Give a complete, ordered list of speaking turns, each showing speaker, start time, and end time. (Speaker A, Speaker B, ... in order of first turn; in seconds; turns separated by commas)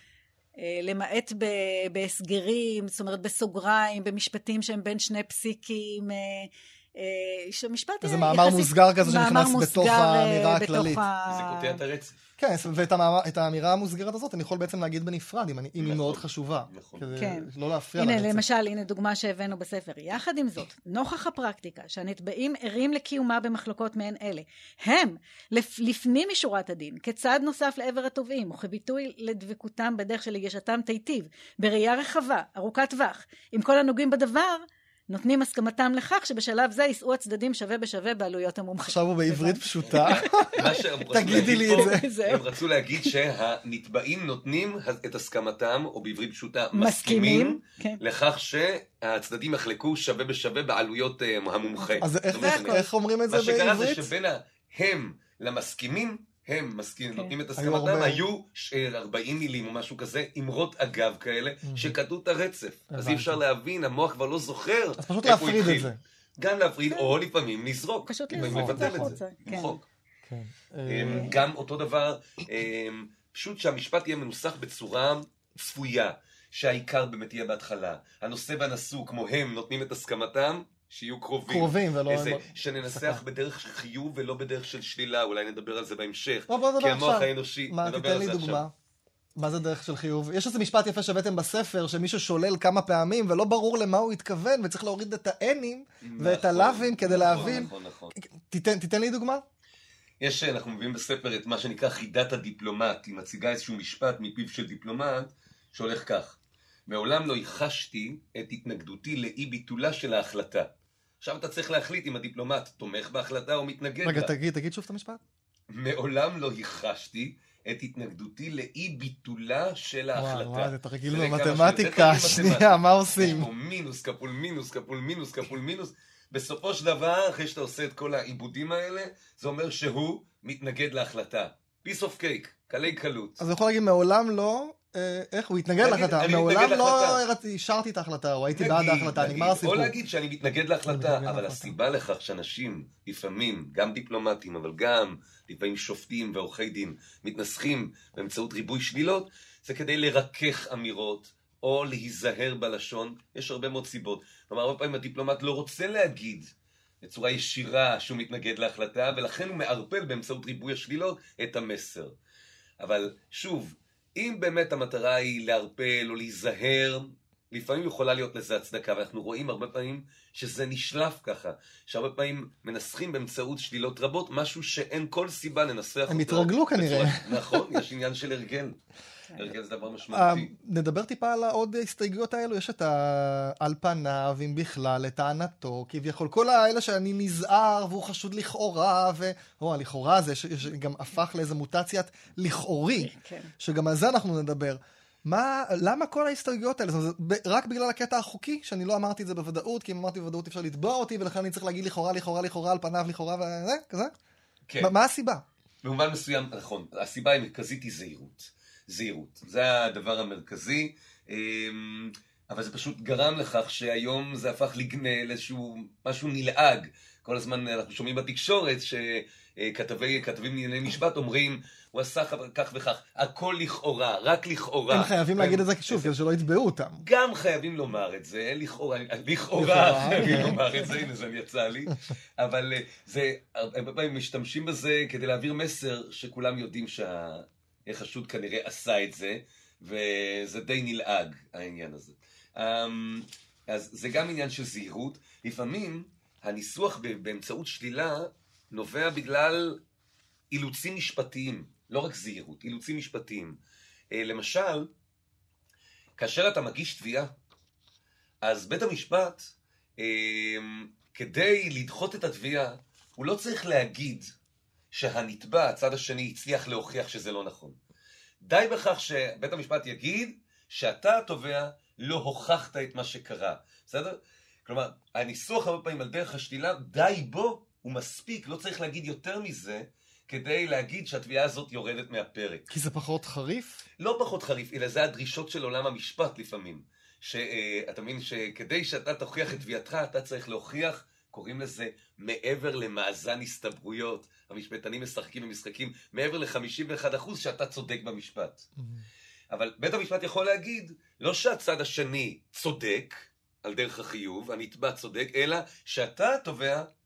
Speaker A: 0.6-11.8, Speaker B: 8.0-11.1, Speaker C: 11.3-12.2, Speaker B: 12.4-18.4, Speaker C: 15.8-17.2, Speaker A: 17.2-43.1, Speaker B: 38.8-42.0, Speaker C: 39.9-69.9, Speaker A: 46.7-48.0, Speaker A: 51.7-52.8, Speaker B: 52.0-54.1, Speaker B: 57.6-58.2, Speaker B: 61.6-62.0, Speaker B: 62.9-63.4, Speaker B: 65.0-66.0, Speaker A: 68.1-69.8, Speaker B: 68.3-69.2, Speaker B: 70.3-71.4, Speaker C: 70.9-88.6, Speaker B: 81.5-83.2, Speaker B: 86.5-88.7, Speaker B: 89.4-99.4, Speaker C: 96.0-98.2, Speaker A: 97.1-97.7, Speaker C: 100.2-106.4, Speaker C: 106.9-110.7, Speaker C: 111.2-114.3, Speaker B: 114.0-115.2, Speaker C: 115.7-133.4, Speaker B: 120.1-123.5, Speaker B: 133.4-139.9, Speaker C: 135.8-137.2, Speaker C: 138.6-156.5, Speaker B: 140.9-141.8, Speaker C: 157.0-162.1, Speaker C: 162.8-178.8, Speaker B: 176.1-177.8, Speaker C: 179.3-180.5, Speaker B: 180.1-204.1, Speaker A: 193.0-193.5, Speaker B: 204.8-205.4, Speaker C: 205.8-226.1, Speaker B: 224.9-227.0, Speaker C: 227.0-249.8, Speaker B: 229.6-230.6, Speaker C: 250.5-253.6, Speaker C: 254.1-254.9, Speaker C: 256.2-257.3, Speaker C: 258.4-264.3, Speaker C: 264.9-267.8, Speaker C: 268.4-282.7, Speaker B: 282.7-283.8, Speaker C: 284.0-298.7, Speaker B: 298.8-299.1, Speaker C: 299.5-306.9